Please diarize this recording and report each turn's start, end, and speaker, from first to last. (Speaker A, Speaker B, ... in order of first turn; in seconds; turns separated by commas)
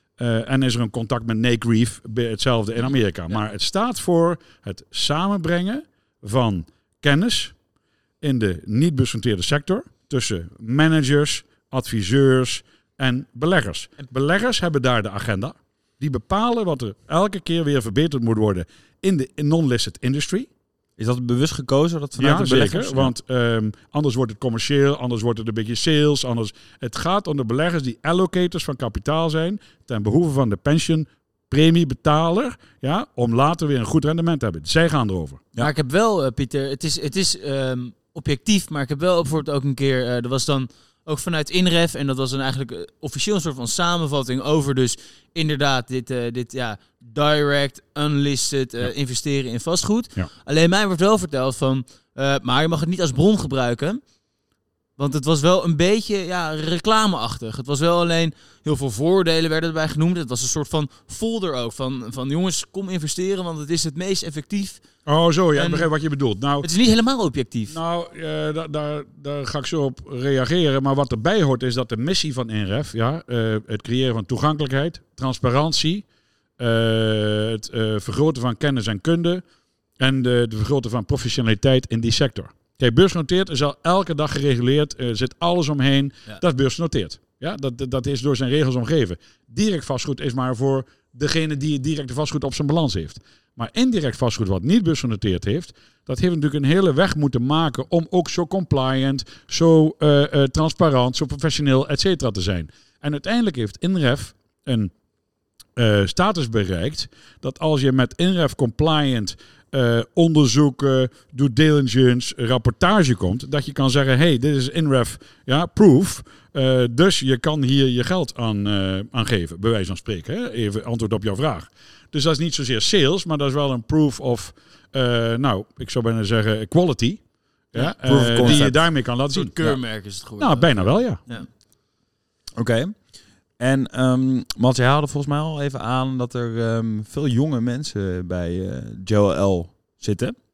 Speaker A: 0.2-7.5, Speaker A: 8.2-20.5, Speaker B: 21.0-23.1, Speaker A: 22.2-35.4, Speaker C: 35.6-54.0, Speaker C: 55.0-64.8, Speaker A: 65.0-66.7, Speaker C: 65.5-65.9, Speaker C: 66.6-67.8, Speaker A: 67.7-76.0, Speaker A: 76.6-79.4, Speaker A: 80.0-104.9, Speaker A: 105.8-131.3, Speaker C: 127.7-128.7, Speaker B: 128.0-128.8, Speaker C: 129.3-131.5, Speaker B: 132.6-140.3